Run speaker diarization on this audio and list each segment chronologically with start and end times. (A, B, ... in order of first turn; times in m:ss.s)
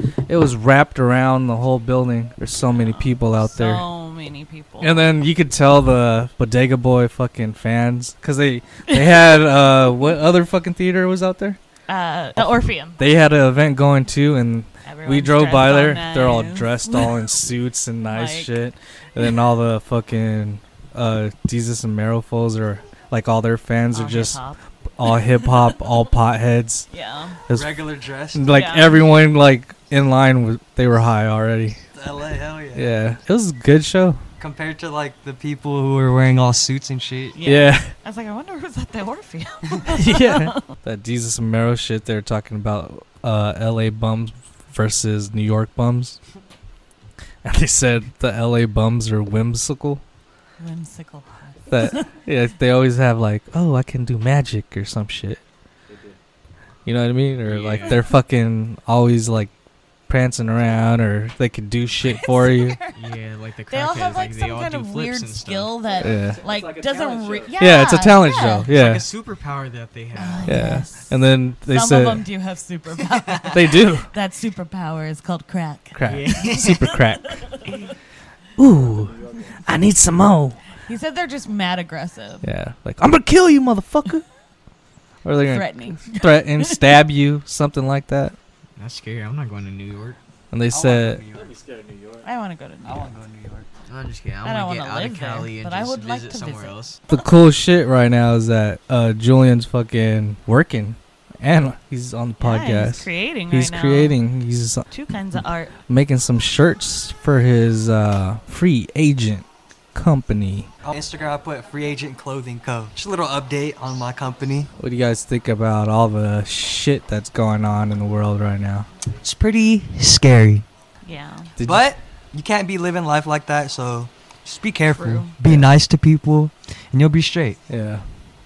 0:00.3-0:03.8 A
0:02.7-0:05.1 B
0:04.8-0:11.6 A
0:08.9-0:09.4 B
0:11.9-0:13.0 B
0:13.0-0:24.4 A
0:14.8-0:17.2 B
0:18.0-0:18.5 B
0:23.9-0:25.5 B
0:25.0-0:26.9 A
0:26.9-0:27.4 B
0:27.5-0:31.8 A
0:27.5-0:28.5 C
0:28.5-0:29.1 B
0:31.9-0:33.0 C
0:32.8-0:34.2 A
0:34.4-0:37.4 C
0:37.3-0:40.7 B
0:37.4-0:37.9 A
0:39.9-0:46.2 A
0:47.4-0:50.0 A
0:50.6-0:52.1 B
0:51.7-0:55.4 A
0:55.9-0:56.2 D
0:56.9-0:59.5 A
0:57.4-0:58.0 E
1:00.1-1:02.8 A
1:02.0-1:03.0 B
1:03.0-1:05.7 E
1:03.7-1:08.7 B
1:05.9-1:07.6 D
1:06.0-1:06.4 A
1:07.6-1:09.0 A
1:08.7-1:10.7 E
1:10.2-1:17.7 B
1:10.5-1:12.2 A
1:13.1-1:13.6 E
1:13.5-1:14.1 A
1:15.9-1:17.4 A
1:16.0-1:16.8 E
1:18.6-1:19.1 A
1:18.6-1:19.7 D
1:19.6-1:20.6 A
1:20.9-1:22.5 B
1:22.4-1:24.2 A
1:25.2-1:28.4 A
1:25.5-1:27.0 B
1:28.8-1:30.2 E
1:30.5-1:31.2 A
1:30.7-1:31.6 C
1:31.3-1:32.3 D
1:32.2-1:33.1 B
1:32.8-1:33.7 C
1:33.9-1:37.0 E
1:34.4-1:36.9 B
1:37.1-1:44.9 A
1:42.4-1:44.2 B
1:44.9-1:45.7 B
1:45.9-1:50.7 A
1:50.8-1:54.7 C
1:54.8-1:58.9 A
1:59.2-2:00.7 C
2:01.0-2:01.5 B
2:01.6-2:01.9 A
2:01.6-2:07.6 C
2:04.9-2:05.3 B
2:07.7-2:08.1 A